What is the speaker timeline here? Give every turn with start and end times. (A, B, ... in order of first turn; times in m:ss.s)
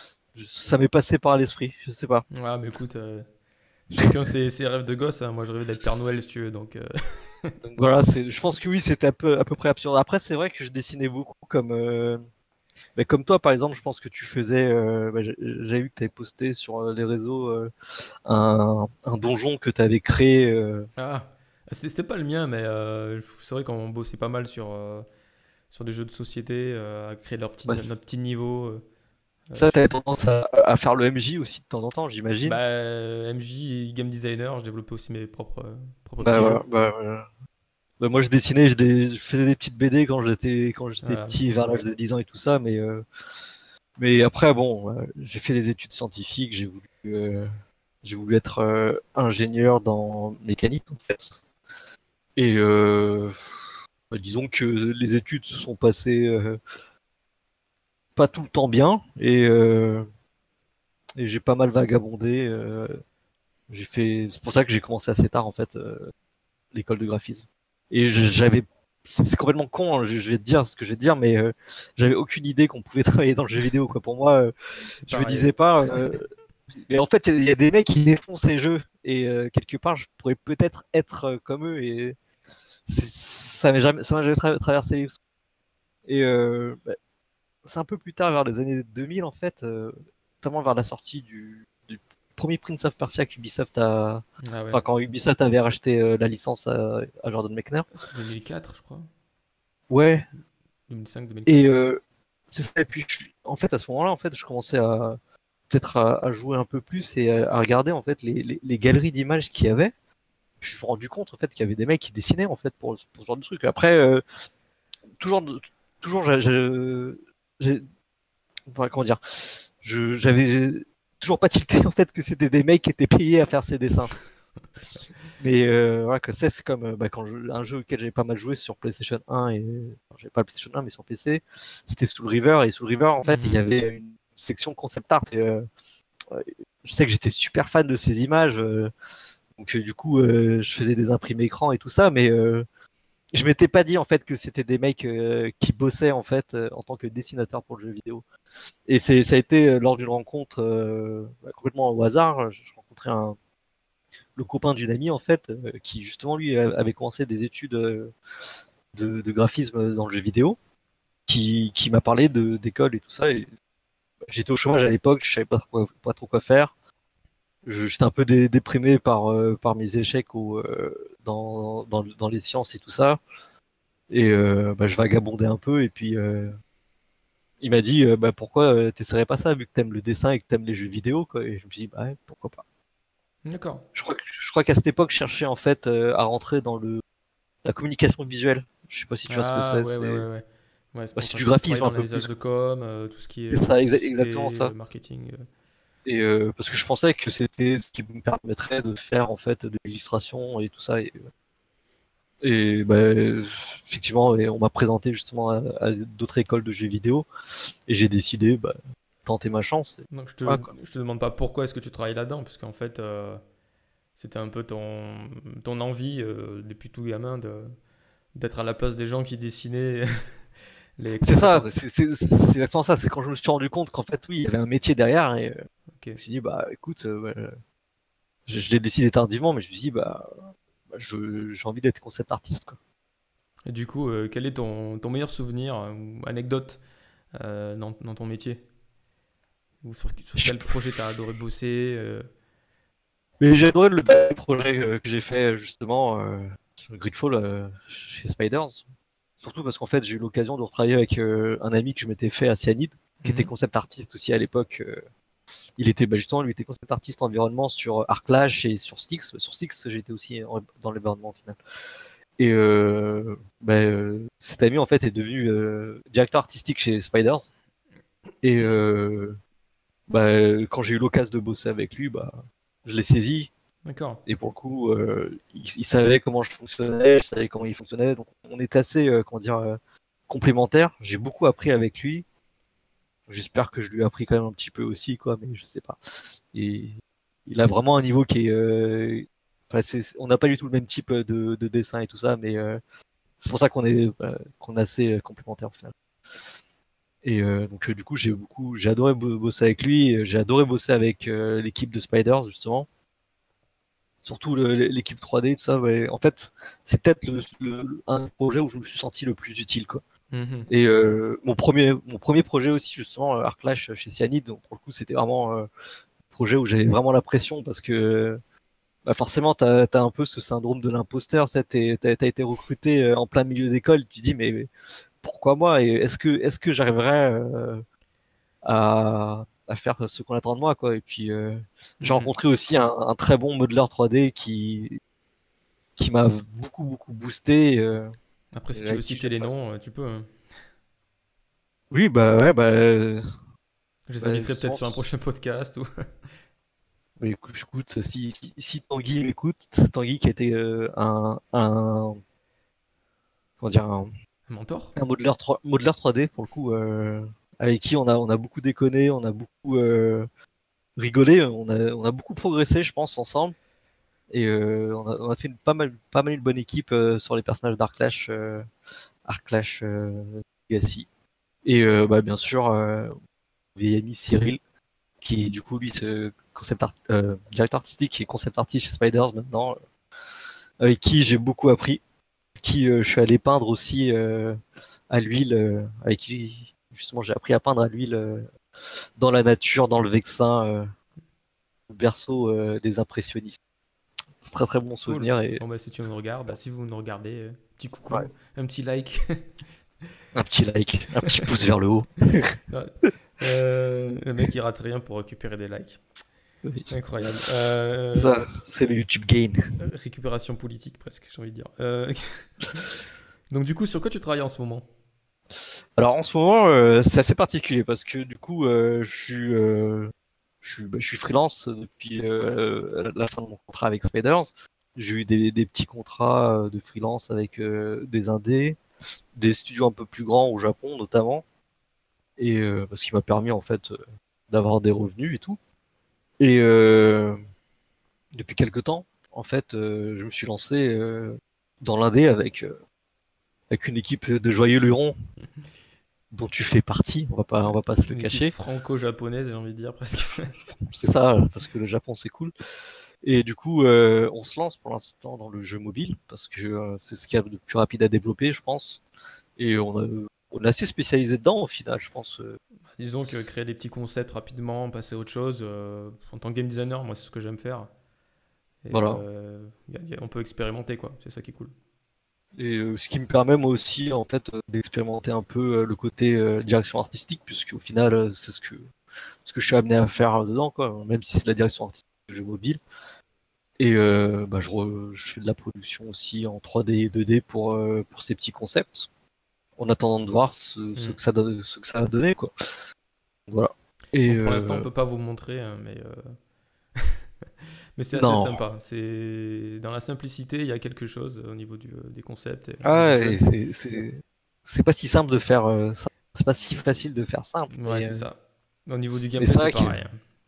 0:00.3-0:02.2 A
0:02.3-0:03.3 B
0:03.9-0:07.5 B
0:07.6-0:12.2 A
0:13.0-0:17.7 A
0:18.3-0:20.9 A
0:21.0-0:25.1 B
0:25.7-0:28.8 B
0:29.5-0:29.8 B
0:29.6-0:32.6 A
0:32.4-0:36.6 B
0:36.2-0:37.3 A
0:38.0-0:43.0 A
0:41.0-0:41.6 B
0:44.0-0:47.5 A
0:48.0-0:51.4 A
0:52.4-0:53.6 A
0:54.1-0:56.6 A
0:58.2-1:00.1 A
1:01.2-1:03.0 A
1:03.7-1:06.1 A
1:06.7-1:14.5 A
1:15.0-1:16.0 B
1:15.1-1:16.2 A
1:16.8-1:22.2 A
1:22.9-1:25.2 A
1:26.1-1:27.0 A
1:27.6-1:37.9 A
1:34.4-1:34.8 B
1:37.9-1:39.1 B
1:39.9-1:40.2 A
1:40.9-1:41.6 B
1:41.5-1:42.0 A
1:42.5-1:45.2 A
1:45.7-1:49.9 A
1:50.6-1:54.2 A
1:55.2-1:57.9 A
1:58.7-2:04.2 A
2:05.4-2:15.6 A
2:13.2-2:13.6 B
2:16.3-2:18.9 A
2:19.6-2:22.6 A
2:23.3-2:28.2 A
2:28.9-2:33.4 A
2:34.4-2:38.1 A
2:38.9-2:40.6 A
2:41.3-2:43.5 A
2:44.3-2:46.7 A
2:47.7-2:53.2 A
2:54.1-2:56.6 A
2:57.6-3:02.6 A
3:03.4-3:03.8 B
3:04.0-3:07.0 A
3:07.6-3:10.2 A
3:09.3-3:15.5 B
3:11.2-3:12.3 A
3:13.5-3:14.7 A
3:16.1-3:21.2 A
3:22.4-3:27.3 A
3:27.9-3:30.7 A
3:30.1-3:33.4 B
3:34.2-3:37.7 B
3:38.3-3:40.4 B
3:41.0-3:41.7 B
3:41.2-3:47.6 A
3:48.5-3:52.8 A
3:53.7-3:56.8 B
3:57.3-3:58.6 B
3:59.8-4:02.3 B
4:00.4-4:00.6 A
4:03.4-4:08.8 A
4:09.4-4:15.0 A
4:13.2-4:13.5 B
4:15.8-4:21.6 A
4:22.4-4:27.5 A
4:28.4-4:29.4 A
4:30.1-4:33.5 A
4:33.8-4:34.2 B
4:34.3-4:39.8 A
4:40.3-4:42.3 A
4:43.3-4:46.0 A
4:46.5-4:52.8 A
4:53.4-4:55.9 A
4:57.2-5:02.9 A
5:04.2-5:10.0 A
5:10.3-5:10.7 B
5:10.7-5:15.7 A
5:16.3-5:18.4 A
5:19.1-5:24.7 A
5:25.2-5:27.8 A
5:28.6-5:35.0 A
5:32.0-5:32.3 B
5:36.0-5:38.1 A
5:38.5-5:40.3 B
5:38.7-5:39.5 A
5:41.9-5:43.2 A
5:44.1-5:46.3 B
5:44.2-5:45.0 A
5:47.2-5:52.2 A
5:53.6-5:54.1 A
5:54.5-5:54.9 B
5:55.0-6:00.3 A
6:01.0-6:03.6 A
6:04.3-6:08.7 A
6:09.3-6:11.1 A
6:11.6-6:13.2 A
6:13.8-6:14.6 A
6:15.2-6:19.8 A
6:20.8-6:22.0 A
6:22.6-6:24.6 A
6:25.1-6:28.5 A
6:29.2-6:30.9 A
6:31.9-6:33.6 A
6:34.4-6:35.6 A
6:35.1-6:39.5 B
6:40.4-6:42.5 A
6:42.7-6:46.0 B
6:46.6-6:46.9 A
6:46.9-6:48.4 B
6:48.1-6:49.6 A
6:49.8-6:52.8 B
6:53.5-6:54.8 B
6:56.0-7:08.8 A
7:09.4-7:11.4 A
7:12.4-7:14.0 A
7:14.5-7:15.6 A
7:16.4-7:17.4 A
7:18.3-7:22.8 A
7:23.7-7:25.2 A
7:26.3-7:28.5 A
7:28.1-7:30.5 B
7:30.9-7:32.5 A
7:33.2-7:39.0 A
7:39.6-7:42.6 A
7:43.0-7:47.9 B
7:48.8-7:51.7 B
7:48.9-7:49.2 A
7:52.6-7:58.8 A
7:59.4-8:02.8 A
8:03.8-8:09.1 A
8:09.8-8:12.5 A
8:13.5-8:14.9 A
8:14.3-8:16.4 B
8:17.0-8:17.2 B
8:18.0-8:23.4 B
8:18.1-8:18.6 A
8:22.8-8:28.2 A
8:27.7-8:30.2 B
8:29.4-8:30.0 A